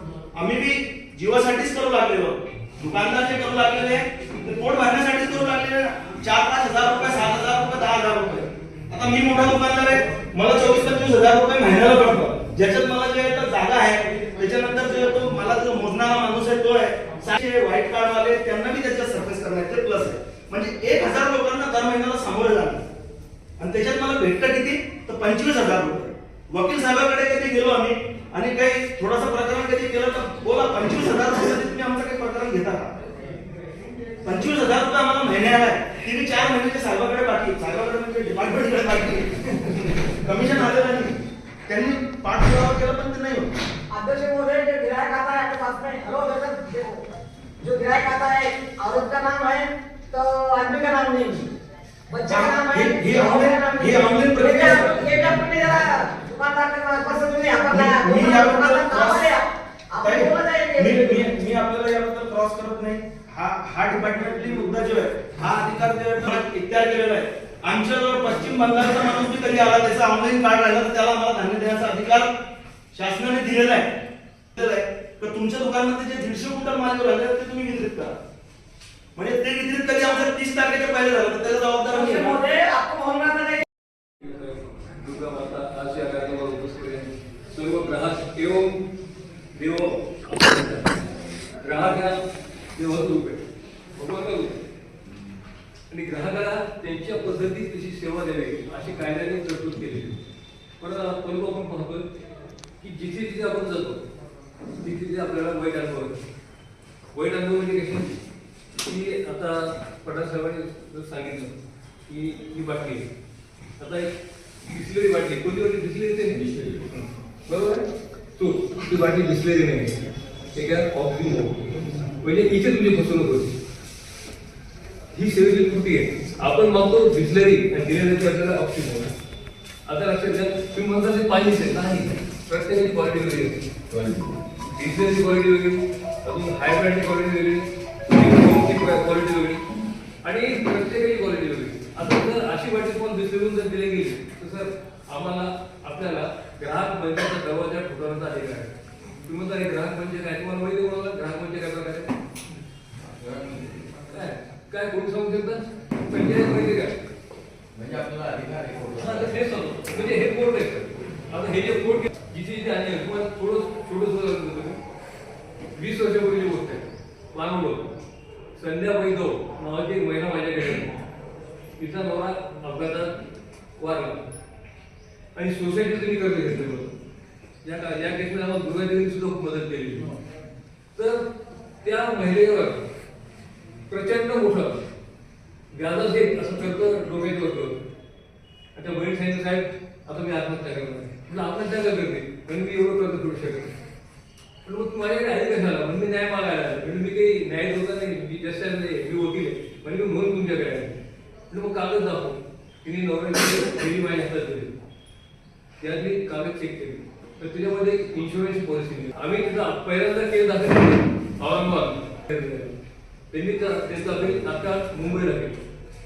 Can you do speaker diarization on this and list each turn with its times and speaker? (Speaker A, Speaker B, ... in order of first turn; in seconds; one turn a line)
Speaker A: 0.3-22.8
Speaker A: 23.6-32.9
Speaker A: 34.2-43.5
Speaker B: 43.9-47.1
Speaker B: 47.6-51.5
Speaker B: 52.1-61.3
Speaker A: 52.3-55.3
Speaker A: 57.7-59.2
Speaker A: 60.0-72.3
Speaker A: 72.9-73.9
Speaker A: 74.5-78.2
Speaker A: 79.2-82.4
Speaker B: 81.9-83.7
Speaker C: 84.2-88.8
Speaker C: 89.5-91.0
Speaker C: 91.6-92.2
Speaker C: 92.7-93.4
Speaker C: 94.0-94.6
Speaker C: 95.9-100.2
Speaker C: 100.8-102.1
Speaker C: 102.8-104.0
Speaker C: 104.8-106.2
Speaker C: 107.1-108.1
Speaker C: 108.8-111.5
Speaker C: 112.1-113.1
Speaker C: 113.8-120.0
Speaker C: 120.5-121.7
Speaker C: 122.2-123.5
Speaker C: 125.1-129.1
Speaker C: 129.8-133.7
Speaker D: 133.9-134.3
Speaker C: 134.7-139.6
Speaker C: 140.2-152.1
Speaker D: 153.1-153.8
Speaker C: 154.1-157.0
Speaker D: 157.7-159.4
Speaker C: 158.9-164.8
Speaker C: 165.7-167.9
Speaker C: 168.6-170.9
Speaker C: 171.8-173.2
Speaker C: 173.8-174.2
Speaker C: 175.3-177.0
Speaker C: 177.6-180.2
Speaker C: 180.9-181.3
Speaker C: 181.8-182.8
Speaker C: 183.9-184.8
Speaker C: 185.7-187.8
Speaker C: 188.7-193.7
Speaker C: 194.6-201.0
Speaker C: 201.5-204.8
Speaker C: 205.8-212.8
Speaker C: 213.3-215.7